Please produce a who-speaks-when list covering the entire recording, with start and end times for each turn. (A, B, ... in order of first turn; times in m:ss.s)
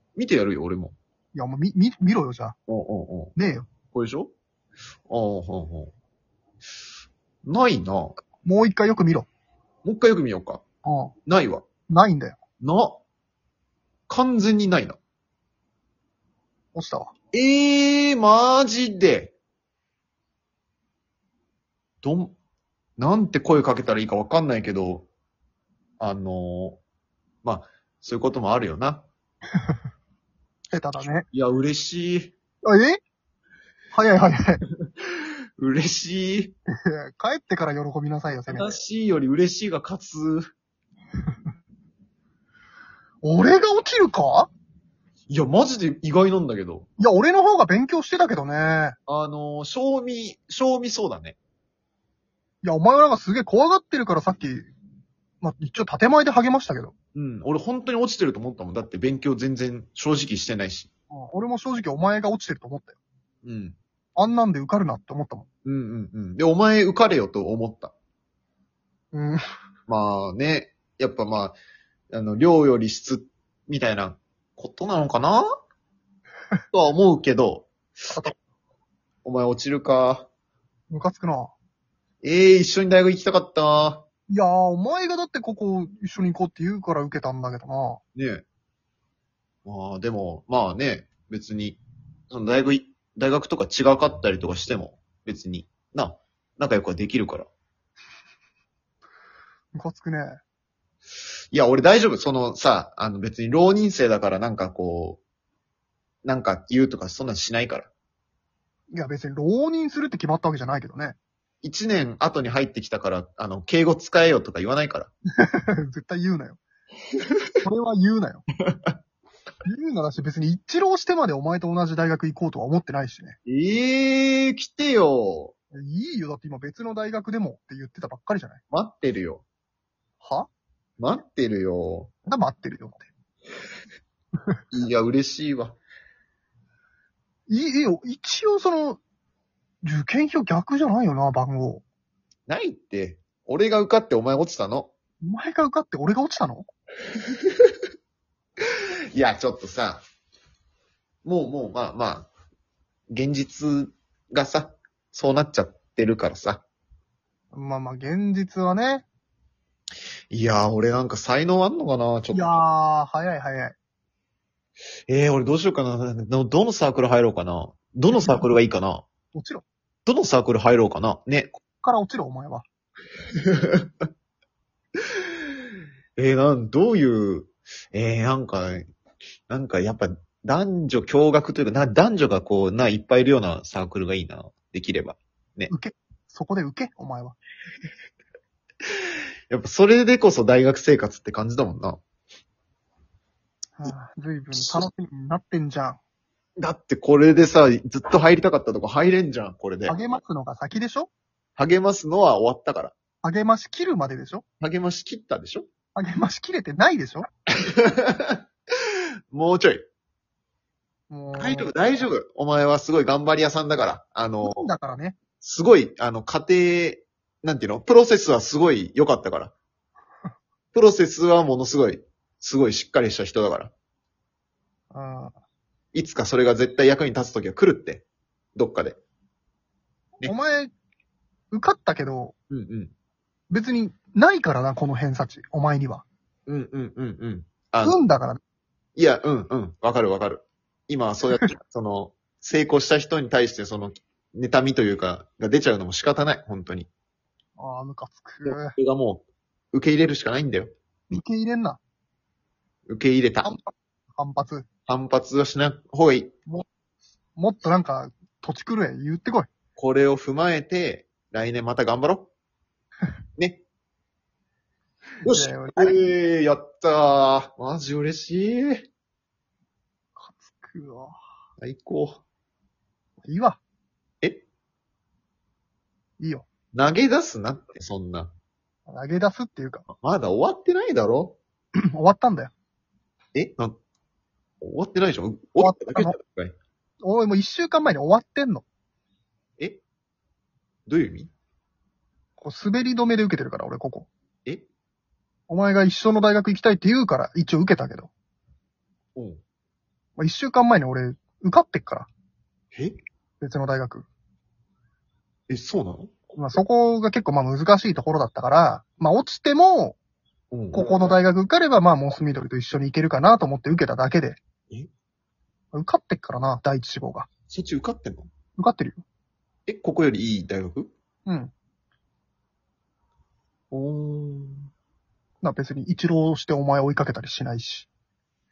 0:00.1-0:01.0 A
0:01.3-0:02.6 B
0:02.7-0:03.3 A
0:03.4-0:03.7 B
0:03.9-0:04.3 A
0:05.1-0:05.9 A
0:07.4-0:08.2 A
0:08.4-0:09.3 B
0:09.8-0:10.6 A
0:10.8-0:11.1 B
0:11.2-0:11.6 A
0:11.9-0:12.4 B
0:12.6-0:13.0 A
0:14.1-0:15.0 A
0:16.7-0:17.1 B
0:17.3-0:19.3 A
0:22.0-0:22.3 A
0:23.0-0:25.1 A
0:26.0-0:26.8 A
0:27.4-0:29.0 A
0:30.7-0:31.3 B
0:31.3-0:32.3 A
0:32.6-0:33.0 B
0:33.9-0:34.6 B
0:34.8-0:36.6 A
0:36.8-0:38.8 B
0:38.5-0:40.5 A
0:43.2-0:44.5 B
0:45.3-0:46.9 A
0:47.0-0:49.0 B
0:49.1-0:51.4 A
0:52.6-0:54.7 B
0:55.4-0:56.9 B
0:57.1-1:00.9 A
1:01.1-1:03.0 B
1:03.4-1:03.8 A
1:04.2-1:05.5 B
1:05.6-1:07.9 A
1:09.1-1:09.4 B
1:09.9-1:11.6 A
1:12.1-1:15.4 A
1:16.7-1:17.7 A
1:19.2-1:20.3 A
1:20.9-1:21.5 B
1:22.2-1:24.0 A
1:24.3-1:28.0 B
1:28.1-1:28.4 A
1:29.6-1:31.8 A
1:32.3-1:37.5 A
1:39.7-1:40.4 B
1:41.5-1:45.2 A
1:46.2-1:47.9 A
1:48.9-1:51.2 B
1:51.6-1:55.1 A
1:55.4-1:56.6 B
1:57.6-1:58.4 B
1:58.6-1:59.0 A
1:59.6-2:03.4 B
2:03.4-2:05.5 A
2:05.7-2:08.6 B
2:08.7-2:09.4 A
2:10.2-2:10.5 B
2:11.0-2:12.1 A
2:12.2-2:13.0 B
2:14.7-2:15.8 A
2:17.5-2:19.0 B
2:19.8-2:21.8 B
2:22.5-2:24.9 A
2:25.2-2:26.6 B
2:29.1-2:30.0 A
2:31.2-2:32.3 A
2:33.1-2:36.6 A
2:37.5-2:39.0 B
2:40.3-2:42.6 A
2:42.3-2:43.8 B
2:45.1-2:49.0 A
2:48.1-2:48.4 B
2:49.3-2:49.6 B
2:50.0-2:51.5 A
2:51.7-2:52.6 B
2:53.4-2:53.9 A
2:56.2-2:58.8 A
2:59.5-3:05.7 A
3:05.7-3:07.4 B
3:09.5-3:12.0 A
3:13.8-3:16.0 B
3:14.5-3:14.8 A
3:16.6-3:20.0 A
3:19.9-3:21.1 B
3:21.6-3:22.9 A
3:23.2-3:24.4 B
3:24.6-3:25.7 A
3:26.0-3:27.2 B
3:27.6-3:28.4 A
3:29.3-3:29.8 A
3:31.1-3:31.8 B
3:31.3-3:34.6 A
3:34.4-3:35.2 B
3:35.4-3:39.5 A
3:40.7-3:43.7 A
3:44.9-3:45.3 B
3:45.9-3:48.0 A
3:48.6-3:49.0 A
3:50.2-3:50.7 B
3:51.5-3:52.3 B
3:52.5-3:52.9 A
3:53.5-3:56.0 B
3:56.5-3:58.0 A
3:57.8-3:58.4 B
3:59.0-4:06.9 A
4:07.6-4:08.8 B
4:08.4-4:10.7 A
4:11.1-4:11.8 B
4:12.9-4:13.5 A
4:13.4-4:14.7 B
4:14.9-4:16.6 A
4:17.4-4:19.5 B
4:19.8-4:22.3 A
4:23.4-4:23.6 A
4:25.2-4:28.9 A
4:25.3-4:26.0 B
4:30.2-4:31.1 B
4:31.6-4:32.2 A
4:33.2-4:33.6 B
4:36.2-4:36.5 B
4:36.7-4:38.3 A
4:38.9-4:39.8 B
4:39.9-4:41.4 A
4:41.9-4:42.5 B
4:43.3-4:43.8 A
4:44.6-4:46.5 A
4:45.6-4:46.2 B
4:47.0-4:48.6 B
4:50.9-4:51.3 A
4:52.4-4:54.1 B
4:55.5-4:58.1 B
4:59.1-4:59.4 A
5:00.2-5:02.1 B
5:03.4-5:04.1 B
5:05.5-5:06.1 A
5:06.3-5:10.0 B
5:10.5-5:11.2 A
5:10.7-5:14.4 B
5:15.7-5:17.3 B
5:17.5-5:18.3 A
5:18.6-5:19.0 B
5:19.6-5:20.9 A
5:21.2-5:21.5 B
5:23.7-5:24.7 A
5:25.4-5:27.9 B